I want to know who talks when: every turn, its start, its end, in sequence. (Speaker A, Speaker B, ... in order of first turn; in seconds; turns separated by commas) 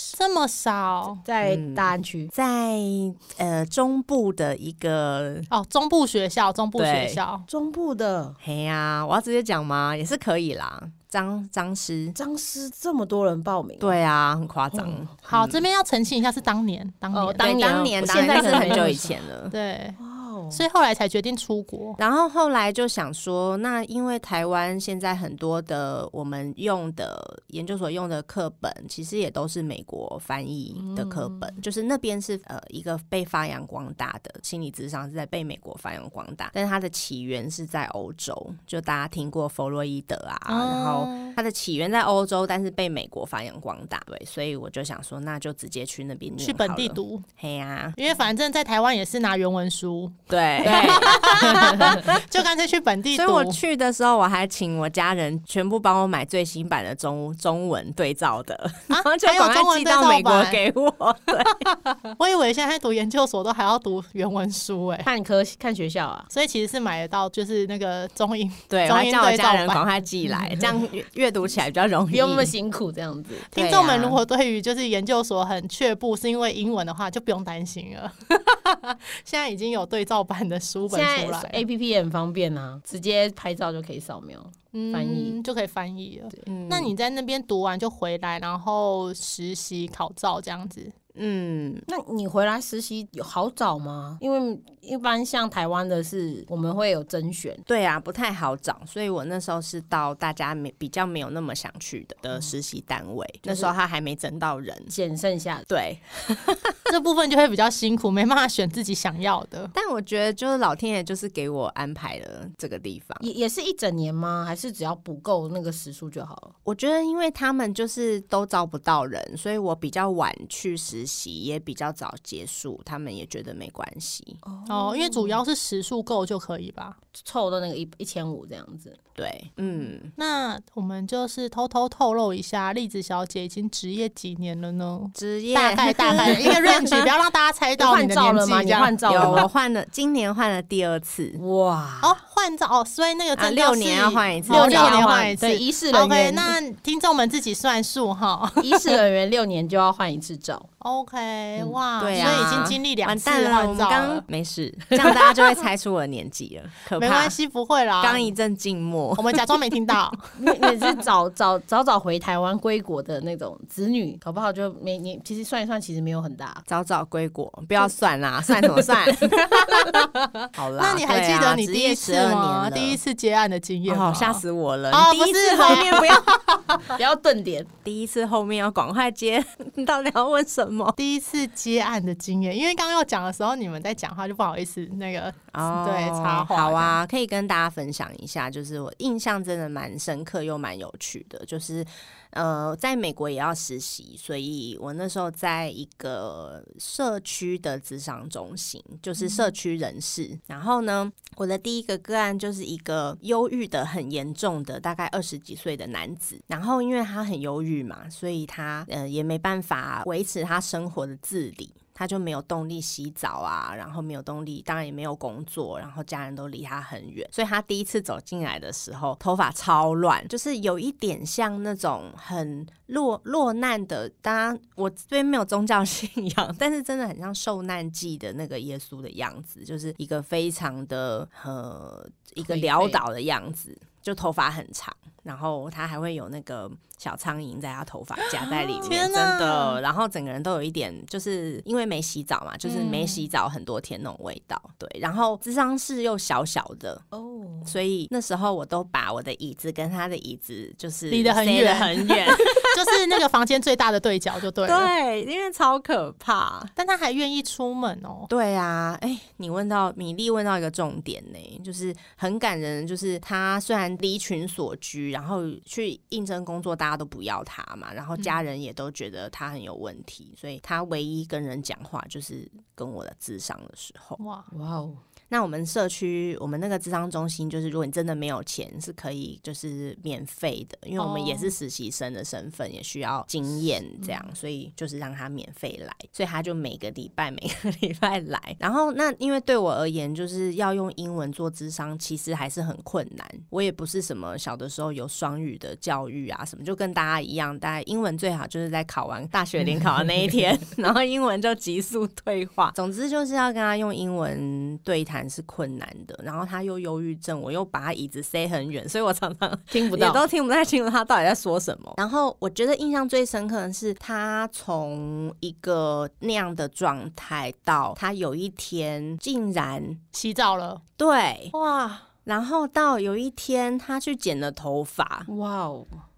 Speaker A: 0.1-1.2, Speaker B: 1.2-2.3, Speaker C: 1.4-5.5, Speaker A: 5.5-7.5, Speaker C: 6.8-7.2, Speaker B: 7.5-8.4, Speaker C: 8.4-12.2, Speaker B: 12.2-14.0, Speaker C: 13.8-15.6, Speaker B: 14.7-15.0, Speaker A: 15.3-18.9, Speaker B: 17.1-19.2, Speaker C: 17.3-19.5, Speaker A: 19.5-20.0, Speaker B: 20.0-20.6, Speaker A: 20.5-22.0, Speaker C: 22.0-48.0, Speaker B: 30.8-31.6, Speaker A: 40.5-41.3, Speaker A: 46.4-47.2, Speaker A: 48.0-53.6, Speaker C: 50.3-52.2, Speaker C: 53.1-61.7, Speaker A: 58.9-60.6, Speaker A: 62.1-65.1, Speaker B: 65.0-66.3, Speaker A: 66.3-69.8, Speaker C: 68.7-72.5, Speaker B: 72.1-73.5, Speaker A: 73.5-81.6, Speaker C: 73.5-74.2, Speaker B: 80.9-85.4, Speaker A: 84.7-90.9, Speaker C: 86.5-86.9, Speaker C: 91.1-91.8, Speaker B: 91.9-97.6, Speaker C: 97.7-104.9, Speaker B: 103.4-103.7, Speaker B: 104.9-105.6, Speaker C: 105.7-106.8, Speaker A: 106.9-109.7, Speaker C: 109.7-113.2, Speaker B: 113.2-116.5, Speaker C: 116.7-124.4, Speaker B: 124.4-125.4, Speaker A: 124.7-127.0, Speaker B: 127.1-129.0, Speaker C: 129.2-130.1, Speaker A: 130.2-139.4, Speaker C: 135.2-137.1, Speaker B: 137.8-139.5, Speaker C: 139.1-141.4, Speaker B: 141.4-142.2, Speaker A: 142.0-149.0, Speaker C: 143.3-145.4, Speaker B: 144.4-146.6, Speaker B: 148.6-150.7, Speaker A: 150.8-154.2, Speaker C: 152.0-157.3, Speaker B: 154.9-155.4, Speaker A: 157.0-158.3, Speaker C: 158.0-159.5, Speaker A: 159.2-160.6, Speaker B: 160.4-166.6, Speaker C: 166.7-173.0, Speaker A: 169.5-176.9, Speaker C: 173.9-176.3, Speaker B: 175.8-176.1, Speaker B: 176.8-177.7, Speaker C: 177.8-180.9, Speaker A: 181.0-187.0, Speaker C: 185.5-247.1, Speaker B: 232.4-233.0, Speaker A: 238.2-239.8, Speaker A: 242.7-243.2, Speaker B: 247.1-247.7, Speaker C: 247.6-252.8, Speaker A: 251.1-254.9, Speaker C: 254.7-256.7, Speaker A: 256.8-258.3, Speaker C: 258.3-274.2, Speaker A: 274.2-274.5, Speaker B: 274.5-275.0, Speaker C: 275.3-320.0, Speaker A: 281.0-281.5, Speaker B: 309.7-310.2, Speaker A: 320.1-320.8, Speaker C: 321.0-321.5, Speaker A: 321.5-322.1, Speaker C: 322.2-325.3, Speaker B: 325.3-325.9